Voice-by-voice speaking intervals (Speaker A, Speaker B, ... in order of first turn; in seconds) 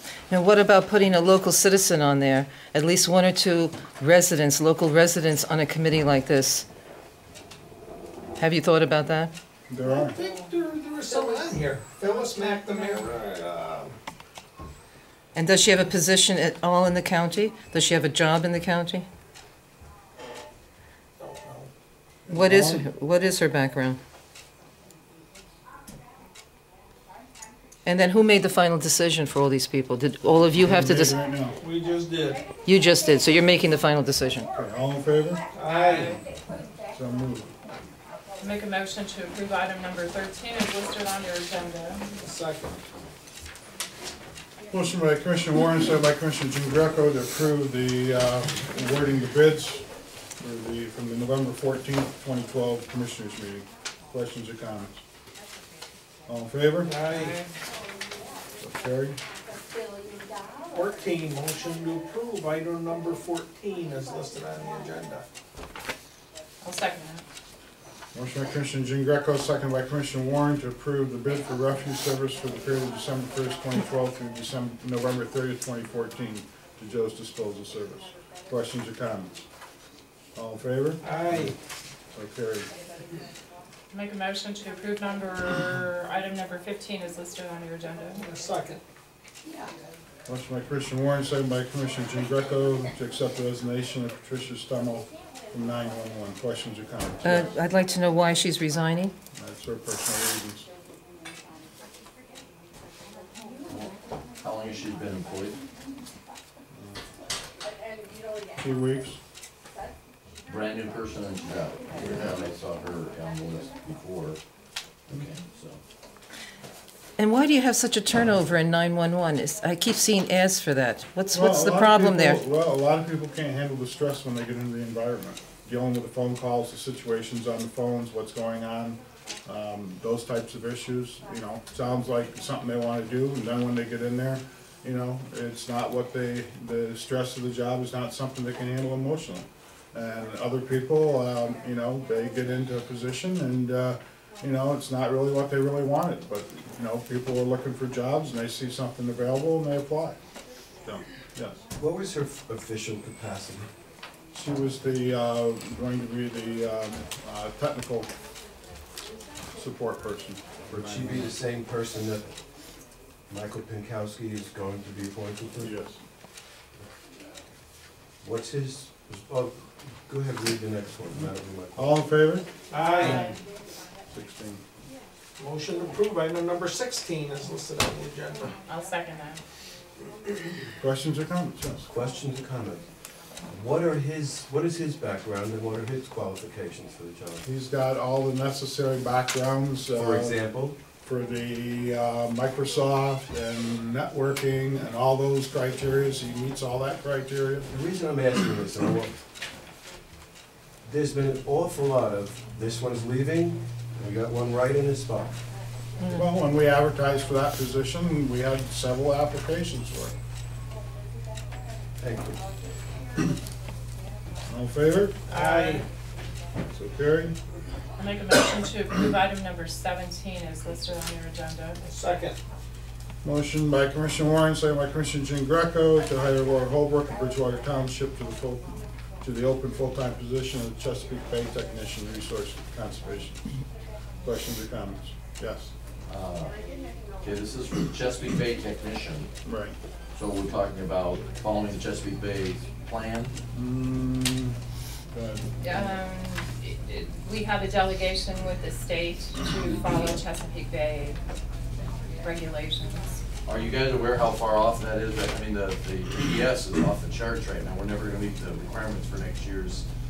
Speaker A: 0.3-6.7, 8.4-9.3, 15.3-19.1, 22.3-24.0, 27.9-31.2, 32.6-34.5, 97.2-99.1, 117.2-122.4
Speaker B: 9.7-10.2, 22.3-22.9, 30.6-31.6, 34.5-35.4, 36.0-36.2, 36.9-37.5, 44.7-49.8, 50.4-55.0, 56.3-56.9, 58.6-59.2, 68.1-79.5, 80.3-81.5, 82.1-82.7, 90.3-97.5, 99.3-100.7, 106.7-107.0, 108.6-109.2, 121.3-150.2, 150.8-151.6, 154.3-158.1, 159.5-161.3, 165.6-166.0, 171.8-172.5, 173.0-173.3, 174.1-174.6, 180.8-181.8, 187.4-190.4, 191.0-197.7, 206.1-210.1, 214.5-215.2, 216.7-217.3, 223.2-233.4, 234.2-235.7, 239.4-239.7, 243.5-244.6, 245.1-246.0
Speaker C: 9.8-13.9, 21.2-21.7, 31.6-32.4, 35.5-36.1, 42.2-42.8, 56.8-57.4, 60.7-65.2, 81.0-81.5, 88.2-88.8, 172.7-173.3, 175.4-178.5, 215.3-215.8, 221.8-222.4
Speaker D: 35.6-36.2, 38.4-42.1, 57.1-57.5, 66.6-67.2, 83.9-88.2, 173.0-173.4, 178.6-179.4, 215.3-215.8, 218.0-221.8, 245.6-251.2, 252.2-253.2
Speaker E: 103.7-105.6, 110.5-114.4, 115.1-115.8, 236.1-236.6, 237.2-239.3, 240.1-243.3, 253.4-259.8
Speaker F: 151.8-153.7, 160.7-162.3, 163.3-165.7, 168.2-172.0, 181.8-182.8, 183.5-187.4, 189.9-190.8, 197.7-199.1, 200.8-205.3, 212.0-212.4